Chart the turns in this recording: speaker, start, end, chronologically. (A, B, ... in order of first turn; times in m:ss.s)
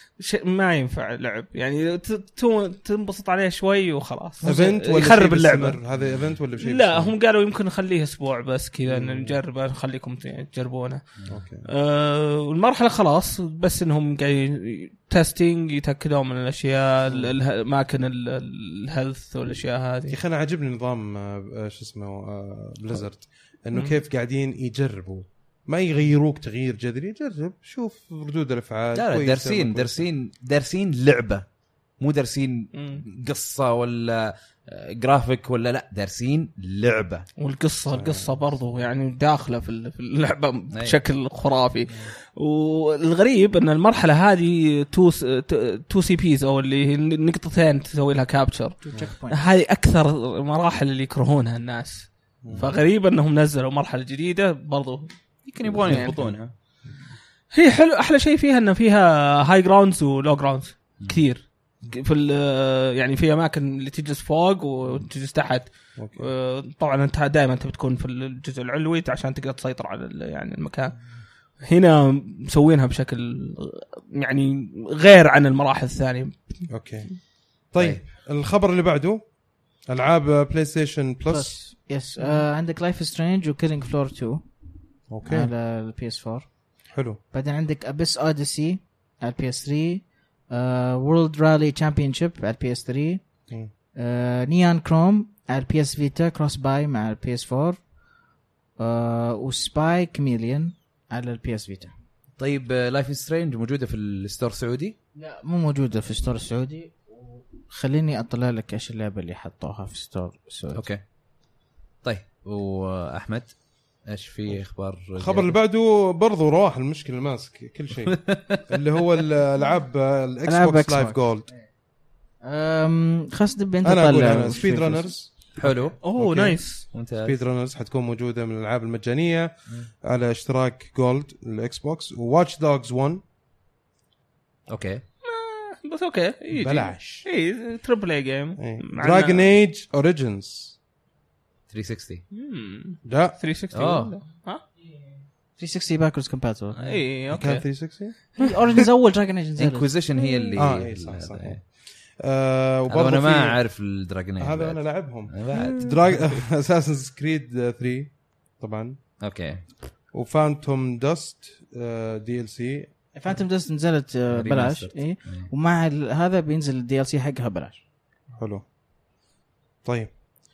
0:00.2-0:05.8 A
0:04.4-0:07.1 B
0:06.0-0:06.3 C
0:06.6-0:11.1 A
0:08.9-0:09.4 B
0:11.3-0:11.7 B
0:11.6-0:20.2 A
0:17.1-0:17.3 B
0:20.1-0:30.1 B
0:29.0-0:31.5 C
0:32.0-0:37.3 C
0:32.7-0:33.0 A
0:37.4-0:55.1 A
0:37.9-0:38.4 B
0:48.8-0:49.4 D
0:52.4-0:52.7 B
0:55.4-0:56.5 C
0:55.8-0:56.2 A
0:55.9-0:56.3 B
0:57.5-1:11.0 A
1:06.0-1:06.3 B
1:11.6-1:16.7 A
1:16.7-1:17.1 B
1:17.7-1:19.2 B
1:19.9-1:21.6 B
1:21.3-1:24.4 D
1:25.1-1:25.5 B
1:25.2-1:26.7 D
1:26.9-1:27.2 B
1:27.3-1:33.3 D
1:34.0-1:37.8 D
1:38.8-1:41.9 D
1:42.4-1:45.0 C
1:45.2-1:50.9 D
1:50.7-1:51.0 C
1:52.0-1:55.5 C
1:55.2-2:01.5 B
1:58.1-1:58.6 C
2:00.5-2:01.2 D
2:02.4-2:05.1 D
2:03.8-2:09.5 B
2:05.6-2:06.0 C
2:06.0-2:06.9 A
2:06.9-2:07.4 C
2:10.0-2:13.2 B
2:14.7-2:15.0 C
2:15.2-2:19.5 A
2:16.5-2:17.2 B
2:18.6-2:20.8 B
2:21.7-2:22.2 C
2:22.3-2:24.6 A
2:23.0-2:23.4 B
2:23.7-2:24.2 C
2:25.6-2:26.8 D
2:26.8-2:27.6 A
2:27.3-2:28.2 B
2:28.4-2:29.9 D
2:29.6-2:31.6 C
2:30.6-2:31.6 B
2:32.2-2:33.6 B
2:32.9-2:36.2 C
2:34.4-2:39.0 B
2:35.5-2:35.9 A
2:39.2-2:39.7 C
2:40.1-2:43.0 B
2:43.2-2:47.8 D
2:44.3-2:45.5 C
2:48.4-2:48.6 B
2:49.8-2:50.1 B